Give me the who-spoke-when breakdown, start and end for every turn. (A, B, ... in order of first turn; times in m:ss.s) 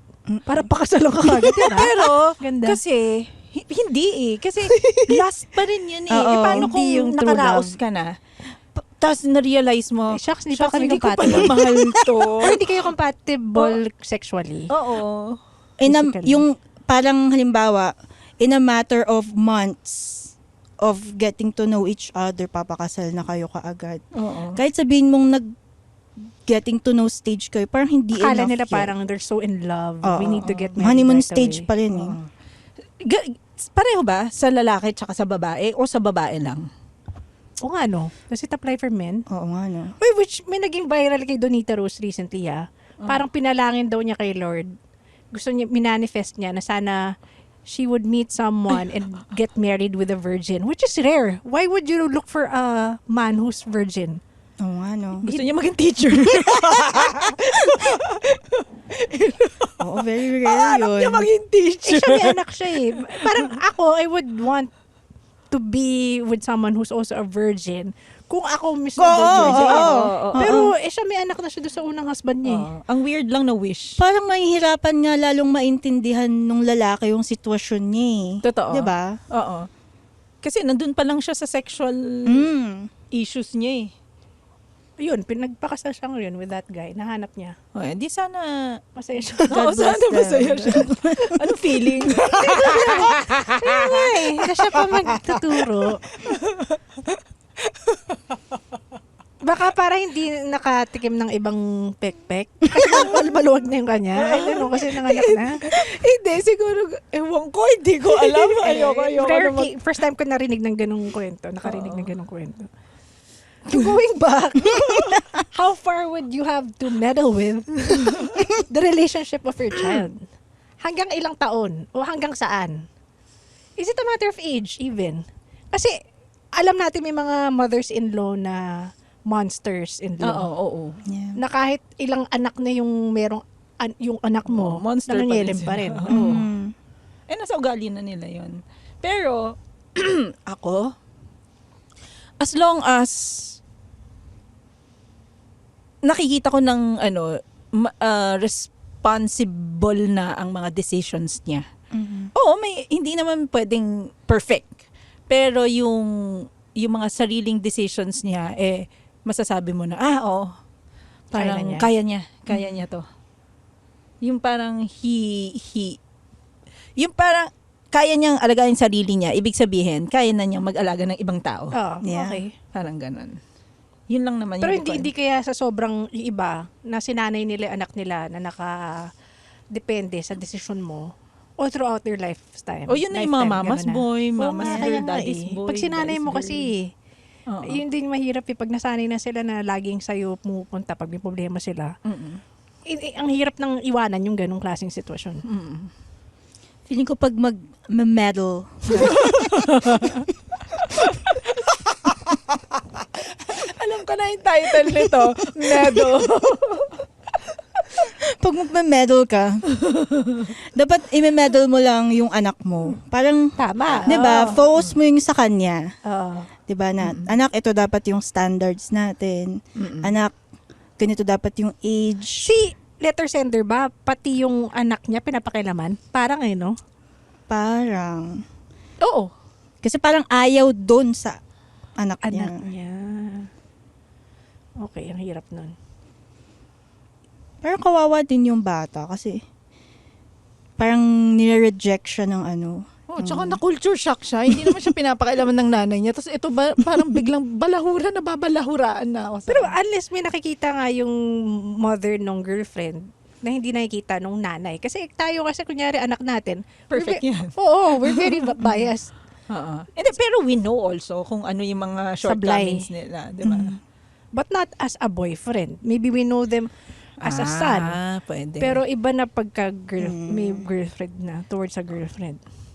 0:00.3-0:00.6 A
0:00.5-0:02.8 B
0:01.3-0:08.1 C
0:04.8-0:05.1 B
0:06.1-0:06.7 A
0:06.3-0:07.7 B
0:09.0-0:12.6 C
0:10.1-0:14.7 B
0:11.3-0:11.6 A
0:14.7-0:15.4 C
0:15.8-0:24.0 A
0:15.8-0:16.4 B
0:24.1-0:24.6 C
0:24.6-0:25.5 A
0:26.4-0:28.9 A
0:28.2-0:31.7 B
0:30.0-0:32.2 A
0:30.3-0:30.7 C
0:31.9-0:32.3 C
0:33.0-0:36.6 C
0:37.6-0:39.2 B
0:39.3-0:39.9 A
0:40.0-0:44.7 B
0:45.3-0:47.0 B
0:47.6-0:54.2 B
0:54.6-0:55.3 A
0:55.3-0:59.9 C
0:56.5-0:56.7 A
0:59.8-1:01.3 A
1:00.4-1:02.4 C
1:01.8-1:04.7 B
1:05.5-1:12.6 B
1:09.0-1:10.7 A
1:09.3-1:10.6 C
1:12.4-1:14.0 C
1:14.0-1:19.2 A
1:18.4-1:19.7 C
1:20.4-1:22.5 C
1:22.3-1:22.9 A
1:23.1-1:23.9 C
1:25.0-1:27.6 B
1:27.7-1:28.8 C
1:29.0-1:29.6 B
1:29.4-1:34.0 C
1:29.5-1:31.4 A
1:32.2-1:32.8 A
1:32.3-1:36.0 B
1:36.2-1:36.8 C
1:37.7-1:38.2 C
1:39.4-1:45.6 B
1:44.2-1:49.7 C
1:48.2-1:52.7 B
1:51.6-1:52.1 C
1:53.7-2:00.2 B
2:00.8-2:02.8 B
2:03.8-2:05.9 B
2:06.6-2:10.4 B
2:10.2-2:11.0 C
2:11.1-2:11.4 A
2:11.4-2:16.2 B
2:14.5-2:16.5 C
2:16.1-2:16.7 A
2:17.3-2:20.9 C
2:22.4-2:23.6 C
2:26.0-2:31.6 C
2:31.9-2:32.3 A
2:32.3-2:34.7 C
2:35.3-2:40.5 C
2:41.3-2:43.0 C
2:41.3-2:41.9 B
2:44.2-2:46.0 C
2:47.0-2:51.7 C
2:51.7-2:52.5 B
2:52.0-2:52.4 A
2:52.7-2:53.4 C
2:54.1-2:55.1 C
2:54.6-2:59.1 B
2:59.7-3:01.1 B
3:01.6-3:06.9 B
3:02.9-3:06.7 C
3:07.5-3:07.8 C
3:07.7-3:11.9 B
3:12.0-3:12.4 C
3:12.9-3:15.4 B
3:15.5-3:15.9 C
3:16.9-3:19.5 A
3:18.9-3:20.3 C
3:20.9-3:22.3 C
3:23.4-3:27.0 C
3:28.2-3:29.6 A
3:29.9-3:30.5 C
3:30.7-3:33.5 A
3:33.6-3:34.6 B
3:33.9-3:35.0 C
3:34.0-3:35.9 A
3:36.0-3:36.5 B
3:36.7-3:40.3 A
3:37.0-3:37.3 C
3:39.8-3:40.1 C
3:41.0-3:42.5 A
3:42.4-3:46.8 B
3:47.5-3:48.4 A
3:49.0-3:49.3 C
3:49.8-3:51.4 A
3:52.0-3:52.6 A
3:52.2-3:53.5 B
3:54.8-3:55.7 B
3:57.6-3:59.4 A
4:00.8-4:03.6 A
4:03.1-4:09.7 C
4:04.5-4:04.8 A
4:09.5-4:19.1 B
4:16.9-4:18.8 C
4:19.5-4:23.8 C
4:22.2-4:22.8 B
4:23.4-4:23.8 A
4:24.4-4:26.7 B
4:27.2-4:27.9 B
4:27.2-4:28.8 C
4:28.6-4:32.4 B
4:30.0-4:30.6 A